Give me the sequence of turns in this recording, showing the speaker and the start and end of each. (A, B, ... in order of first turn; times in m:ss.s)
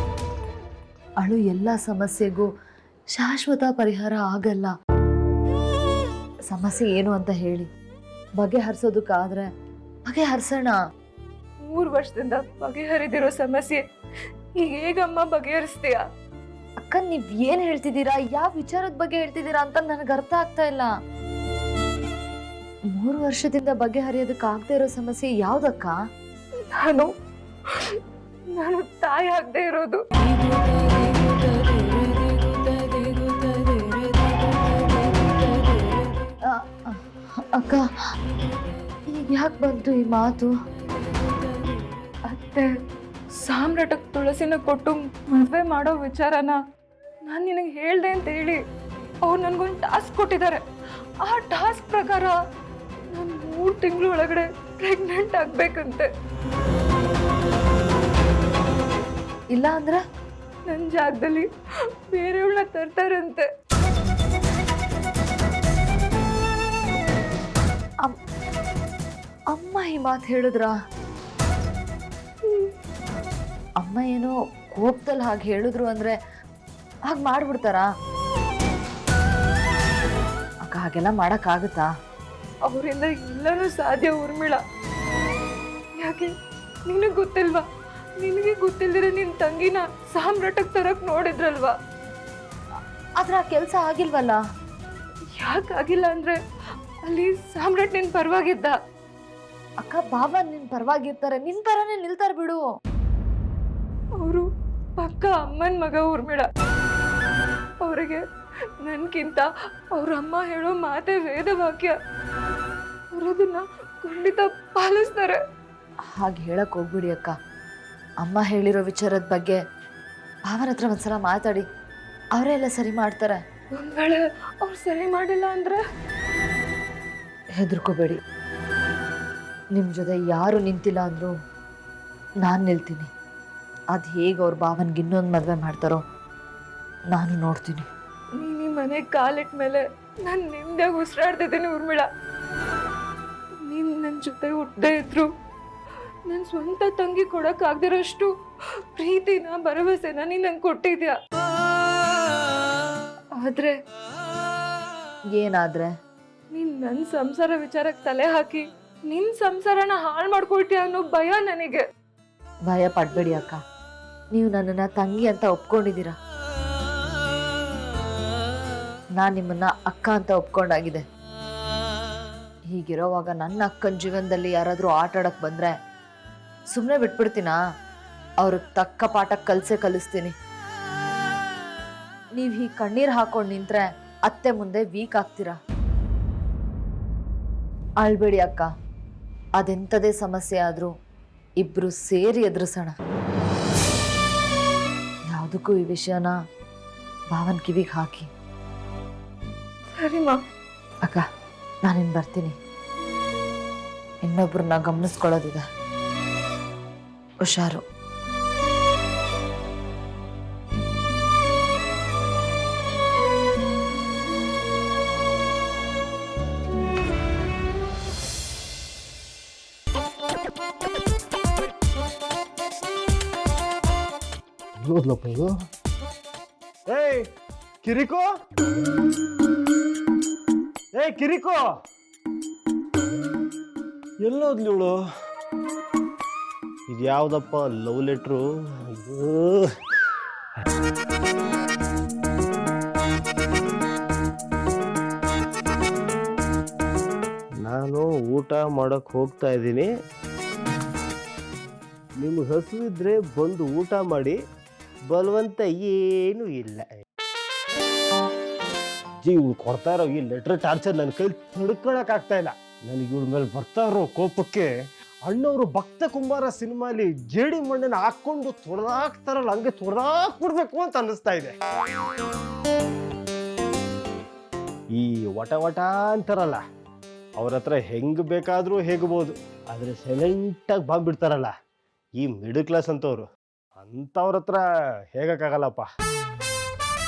0:01.2-0:02.5 A
0:03.1-0:04.7 A
0:06.5-0:07.7 A
0:08.4-0:09.5 A
0:10.1-0:10.8 A
0:11.6-0:13.8 B
0:14.6-0:16.0 B
0:16.8-0:20.9 A
0:22.9-0:26.0 A
0:26.7-0:27.1 B
0:27.7-0:36.1 B
0:36.4-0:37.9 A
0:39.1-0:40.5 A
0:42.2-0:42.7 B
0:43.4-0:46.6 B
0:47.2-0:48.6 B
0:49.2-0:50.6 B
0:51.2-0:52.4 B
0:53.1-0:56.1 B
0:59.5-1:00.0 A
1:00.7-1:01.5 B
1:02.1-1:03.5 B
1:09.5-1:10.7 A
1:13.8-1:16.2 A
1:17.1-1:17.9 A
1:20.6-1:21.9 A
1:22.6-1:24.6 B
1:26.0-1:26.3 B
1:26.8-1:27.6 B
1:28.2-1:31.7 B
1:33.2-1:34.4 A
1:35.3-1:36.4 B
1:37.0-1:38.8 B
1:39.8-1:42.6 A
1:44.2-1:44.5 B
1:45.0-1:46.5 B
1:47.8-1:48.2 B
1:48.8-1:52.0 B
1:53.1-1:55.4 B
1:56.2-1:57.3 A
1:58.2-1:59.6 A
2:00.5-2:01.6 A
2:02.3-2:03.4 A
2:03.7-2:05.8 B
2:07.6-2:08.2 A
2:09.7-2:11.3 A
2:12.4-2:13.1 A
2:13.9-2:16.0 A
2:17.1-2:17.9 A
2:18.4-2:22.1 B
2:23.6-2:25.3 B
2:26.3-2:28.3 B
2:28.9-2:31.1 B
2:33.3-2:33.8 B
2:35.4-2:35.9 A
2:36.5-2:41.8 B
2:42.7-2:43.6 A
2:44.3-2:46.1 A
2:49.2-2:51.0 A
2:52.7-2:55.7 A
2:56.7-2:57.6 A
2:58.4-3:00.3 A
3:02.4-3:05.6 A
3:08.0-3:08.7 A
3:09.6-3:10.9 A
3:11.6-3:13.0 A
3:15.3-3:16.3 A
3:17.3-3:18.3 A
3:20.0-3:20.4 B
3:21.8-3:22.6 A
3:24.2-3:25.6 A
3:27.4-3:27.8 A
3:44.8-3:45.6 C
3:46.9-3:47.3 C
3:47.8-3:48.3 C
3:50.9-3:51.6 C
3:54.2-3:55.0 C
3:56.9-3:59.7 C
4:07.6-4:09.9 C
4:12.2-4:14.4 C
4:15.1-4:16.9 C
4:19.2-4:24.7 C
4:25.2-4:31.5 C
4:34.9-4:36.6 C
4:37.4-4:41.5 C
4:42.2-4:43.2 C
4:43.8-4:45.9 C